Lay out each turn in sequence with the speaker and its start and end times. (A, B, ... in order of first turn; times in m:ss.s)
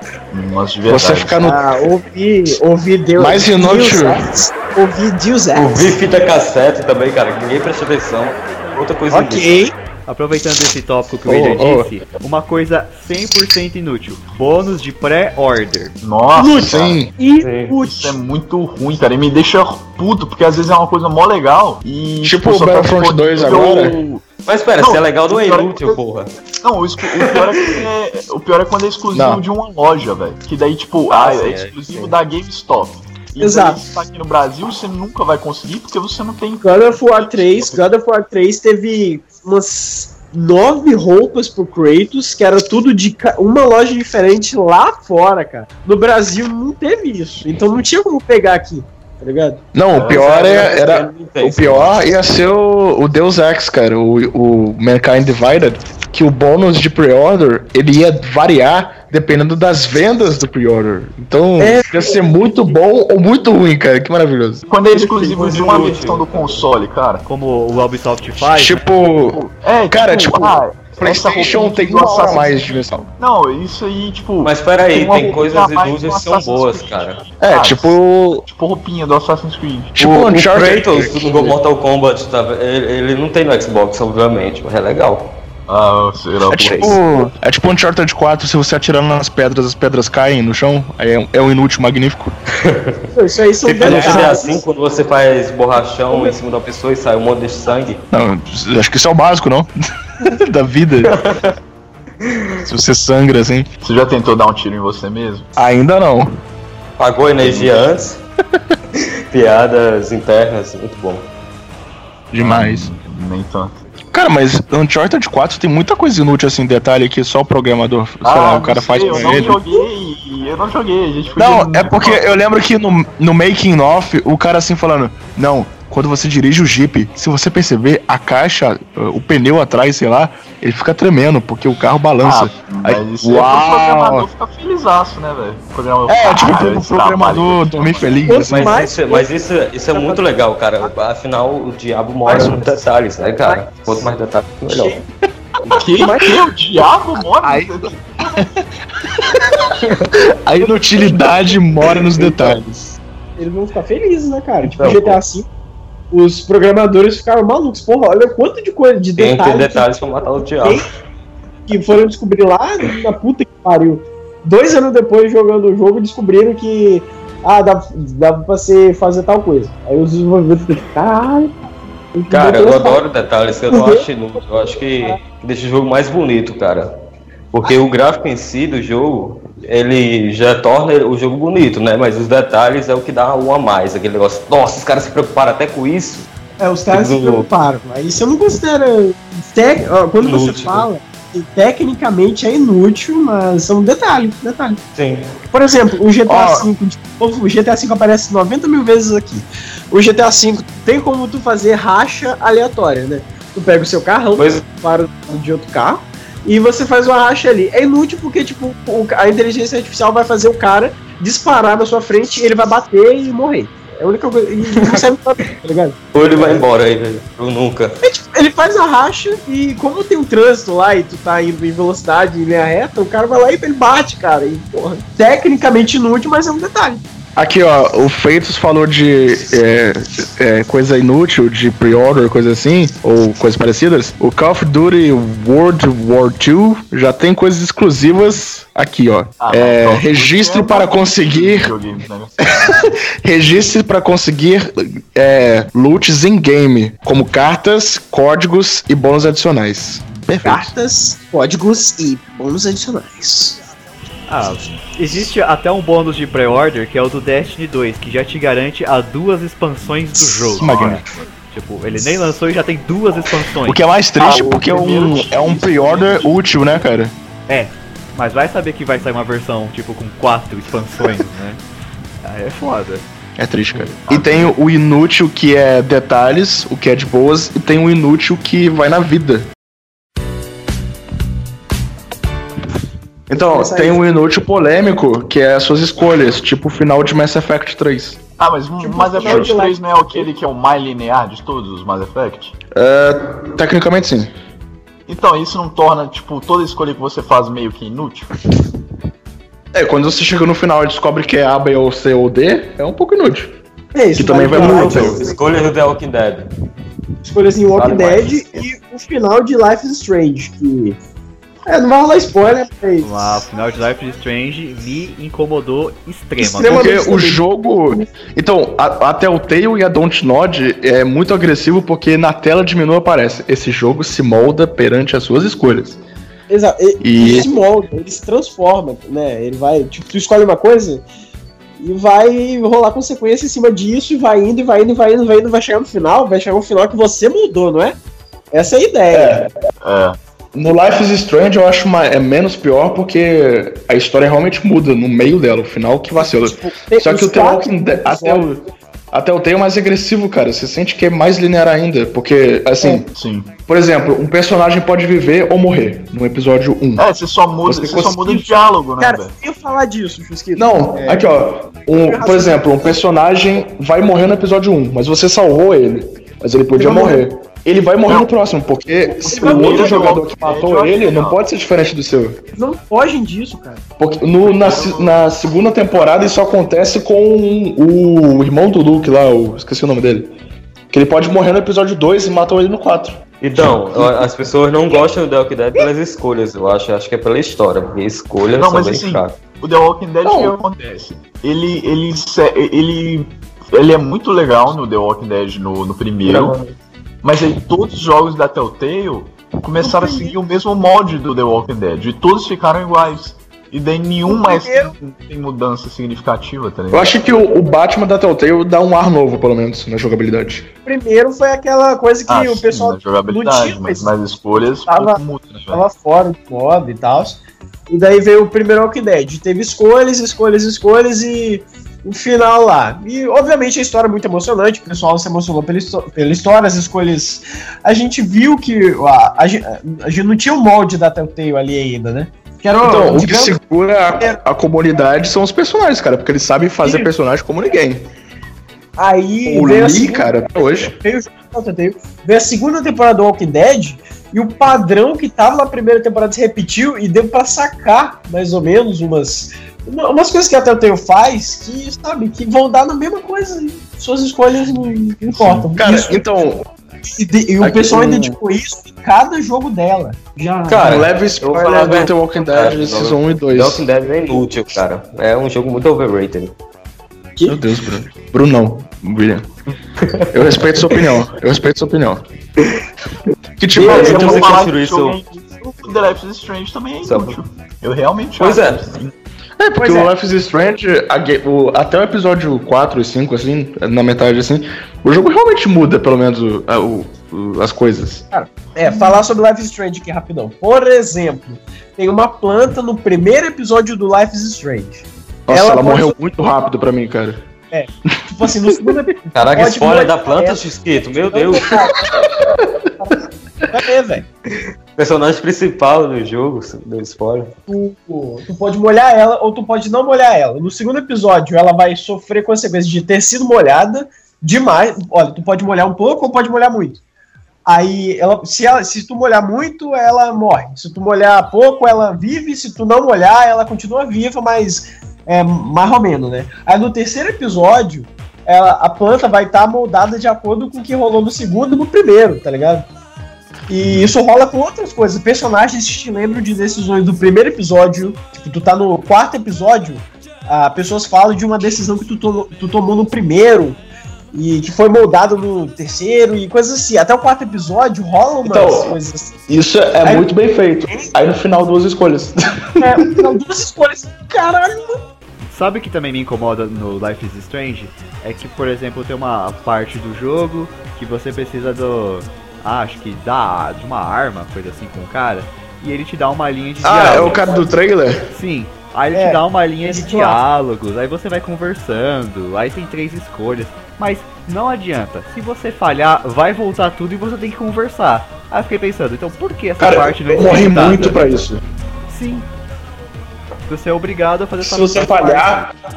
0:00.3-0:01.4 A
0:00.9-0:01.6 B
0:01.4-0:06.0 C
0:03.2-0:04.3 B
0:05.5-0:09.5 D
0:09.1-0:09.7 C
0:10.1-0:15.9 E
0:11.2-0:11.9 B
0:16.0-0:17.0 A
0:16.4-0:18.2 C
0:16.5-0:17.1 B
0:17.4-0:17.8 D
0:17.8-0:24.2 A
0:22.2-0:24.0 B
0:24.4-0:26.3 D
0:24.8-0:26.0 A
0:26.6-0:37.9 A
0:27.2-0:27.8 D
0:29.1-0:29.4 B
0:31.1-0:32.2 D
0:33.4-0:33.8 C
0:36.6-0:49.6 C
0:49.7-1:04.7 B
0:49.9-0:50.2 A
0:50.0-0:52.1 D
1:01.6-1:02.1 C
1:04.7-1:07.2 A
1:04.9-1:05.9 C
1:05.2-1:06.7 D
1:07.3-1:08.8 E
1:08.5-1:13.1 B
1:09.3-1:19.9 A
1:12.0-1:12.4 C
1:14.4-1:17.2 D
1:17.4-1:18.4 B
1:20.0-1:21.5 B
1:20.0-1:25.4 D
1:25.7-1:27.0 A
1:26.5-1:32.3 B
1:32.6-1:33.1 D
1:33.1-1:34.6 C
1:33.6-1:38.0 D
1:33.8-1:34.3 B
1:36.1-1:36.4 C
1:38.1-1:41.1 B
1:41.0-1:41.5 D
1:42.2-1:42.6 D
1:42.6-1:43.7 B
1:43.8-1:45.5 A
1:45.6-1:46.3 B
1:47.0-1:48.2 D
1:47.4-1:47.9 A
1:48.9-1:51.3 D
1:52.3-1:52.9 B
1:52.4-1:53.8 A
1:54.1-1:59.6 B
1:58.2-2:02.4 A
1:58.9-1:59.9 C
2:01.4-2:14.2 B
2:12.2-2:18.3 A
2:16.1-2:18.8 B
2:18.2-2:19.3 C
2:18.4-2:25.0 D
2:19.9-2:20.3 C
2:22.2-2:24.1 C
2:24.7-2:25.1 C
2:25.7-2:26.3 C
2:25.7-2:28.1 A
2:27.4-2:33.0 B
2:30.9-2:31.5 C
2:32.2-2:32.6 C
2:33.4-2:35.5 C
2:34.6-2:35.2 D
2:36.1-2:40.9 C
2:39.2-2:40.8 D
2:41.7-2:51.5 C
2:52.1-2:53.0 C
2:52.3-2:56.9 D
2:53.7-2:55.2 C
2:57.5-3:06.3 D
3:06.6-3:14.8 C
3:06.9-3:07.5 D
3:10.2-3:10.9 D
3:15.0-3:15.3 D
3:15.5-3:36.7 C
3:16.3-3:16.7 B
3:24.4-3:24.6 D
3:34.8-3:35.0 D
3:36.1-3:38.0 D
3:38.0-3:47.0 C
3:47.4-4:01.7 B
3:59.4-4:02.5 A
4:02.4-4:10.7 B
4:10.4-4:13.6 C
4:14.3-4:23.8 E
4:20.5-4:21.0 B
4:20.6-4:21.2 A
4:23.6-4:27.1 B
4:24.2-4:26.7 A
4:27.5-4:31.6 E
4:32.2-4:33.0 E
4:33.4-4:39.5 B
4:34.1-4:34.5 A
4:43.3-4:48.2 B
4:43.4-4:44.1 C
4:48.4-4:52.5 A
4:48.8-4:50.3 C
4:52.7-4:54.3 B
4:55.1-4:58.3 A
4:59.7-5:03.5 B
5:03.9-5:05.4 C
5:04.1-5:05.3 B
5:04.5-5:06.5 D
5:07.2-5:11.0 C
5:07.7-5:08.6 D
5:11.7-5:13.4 C
5:13.0-5:16.9 E
5:16.4-5:18.0 C
5:16.7-5:26.0 B
5:26.5-5:31.0 C
5:27.0-5:27.5 B
5:31.8-5:38.0 C
5:38.5-5:39.4 C
5:39.1-5:39.5 B
5:39.8-5:40.2 A
5:40.5-5:53.1 B
5:46.2-5:48.5 C
5:52.8-5:53.5 A
5:53.7-5:57.0 B
5:57.0-5:59.3 A
5:57.6-5:58.5 B
5:59.0-6:01.4 C
6:00.5-6:12.4 B
6:01.9-6:03.0 C
6:06.8-6:07.2 C
6:09.2-6:11.4 A
6:09.3-6:10.2 C
6:12.5-6:13.8 C
6:14.0-6:20.4 B
6:14.4-6:15.3 A
6:20.9-6:24.2 B
6:23.4-6:29.4 D
6:28.5-6:36.6 A
6:30.2-6:30.5 B
6:36.2-6:36.7 D
6:37.2-6:47.2 A
6:39.8-6:40.3 C
6:44.3-6:44.9 C
6:46.9-6:50.7 B
6:50.8-6:54.1 C
6:52.3-6:55.8 A
6:54.9-6:55.2 C
6:55.7-7:13.6 C
7:12.8-7:18.1 B
7:16.8-7:17.1 C
7:19.0-7:36.2 C
7:19.4-7:21.0 B
7:35.3-7:35.7 A
7:35.7-7:36.6 B
7:37.1-7:41.0 C
7:37.6-7:38.4 B
7:40.7-7:46.5 D
7:40.8-7:43.8 B
7:47.4-7:49.5 B
7:50.0-7:50.3 D
7:50.3-7:52.2 B
7:53.6-7:54.5 B
7:53.7-7:55.2 D
7:53.7-7:59.1 A
7:53.8-7:54.5 C
7:57.0-7:57.4 D
7:58.4-7:58.8 D
7:59.6-8:08.3 B
7:59.8-8:00.1 C
8:08.3-8:16.2 C
8:15.5-8:17.4 B
8:17.7-8:20.6 C
8:18.0-8:19.0 B
8:19.3-8:21.9 D
8:21.3-8:22.3 C
8:21.6-8:23.7 B
8:23.0-8:24.2 C
8:25.0-8:27.5 D
8:27.7-8:37.0 C
8:37.6-8:52.9 C
8:53.7-9:03.8 C
8:53.8-8:54.1 A
9:04.3-9:09.4 C
9:08.4-9:09.0 B
9:09.5-9:13.3 B
9:10.0-9:10.3 C
9:12.8-9:15.0 C
9:15.5-9:27.7 E
9:26.8-9:28.3 B
9:28.3-9:41.4 E
9:29.1-9:30.4 C
9:39.8-9:41.6 B
9:42.1-9:42.5 E
9:43.7-9:45.7 E
9:44.6-9:45.6 B